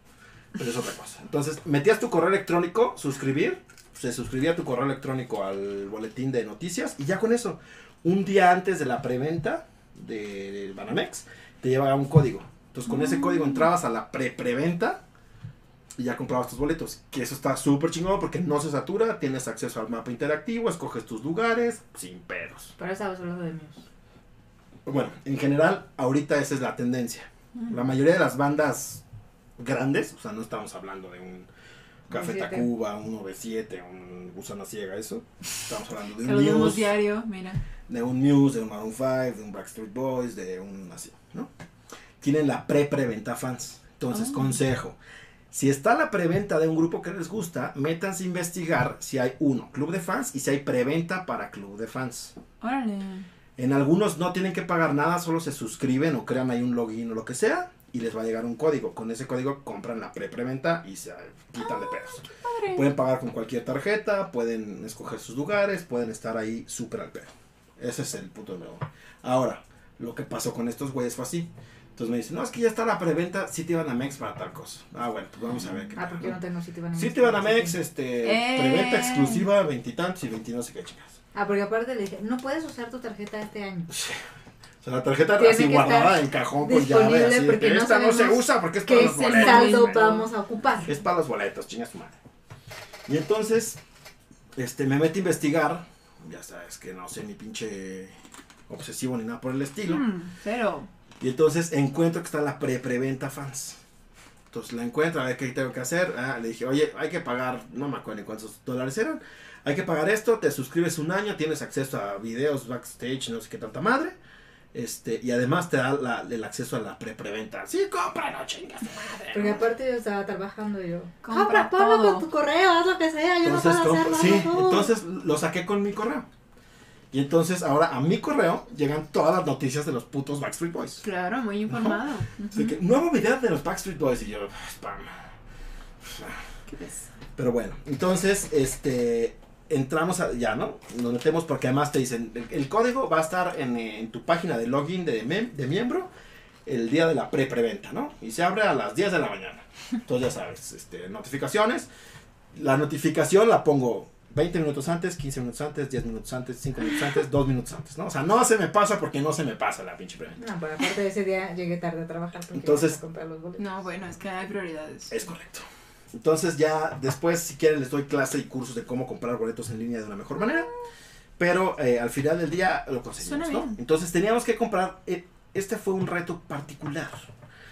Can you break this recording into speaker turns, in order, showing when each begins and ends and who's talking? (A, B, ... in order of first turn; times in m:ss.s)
0:00.6-0:15.0 A
0:12.9-0:13.7 B
0:16.0-0:22.7 A
0:22.8-0:23.9 C
0:24.8-0:29.0 A
0:29.6-0:31.5 A
0:32.1-0:37.0 A
0:32.1-0:32.7 C
0:36.2-0:37.6 B
0:37.9-0:41.5 A
0:42.2-0:45.0 A
0:44.1-0:44.6 B
0:45.5-0:52.3 A
0:52.6-0:53.3 B
0:53.6-1:16.4 A
1:01.6-1:02.9 B
1:15.5-1:15.8 B
1:16.0-1:17.8 C
1:17.0-1:21.2 A
1:18.2-1:19.5 B
1:21.3-1:23.9 C
1:23.9-1:24.2 A
1:24.8-1:30.2 A
1:25.4-1:30.9 C
1:29.0-1:30.3 B
1:30.8-1:32.2 A
1:33.1-1:33.8 A
1:34.6-1:38.2 A
1:38.7-1:40.1 A
1:39.9-1:40.9 B
1:41.2-1:43.8 A
1:44.5-1:54.2 A
1:54.7-1:59.7 A
1:59.3-2:04.9 C
2:01.2-2:02.3 B
2:03.4-2:06.3 A
2:07.1-2:11.1 A
2:11.0-2:12.8 B
2:11.7-2:15.2 A
2:16.0-2:16.4 A
2:16.7-2:17.1 B
2:17.4-2:26.1 A
2:26.7-2:31.9 A
2:32.5-2:40.4 A
2:40.4-2:43.6 C
2:42.6-2:43.0 A
2:43.6-2:45.1 B
2:45.1-2:50.7 A
2:51.4-2:57.3 A
2:53.2-2:53.8 B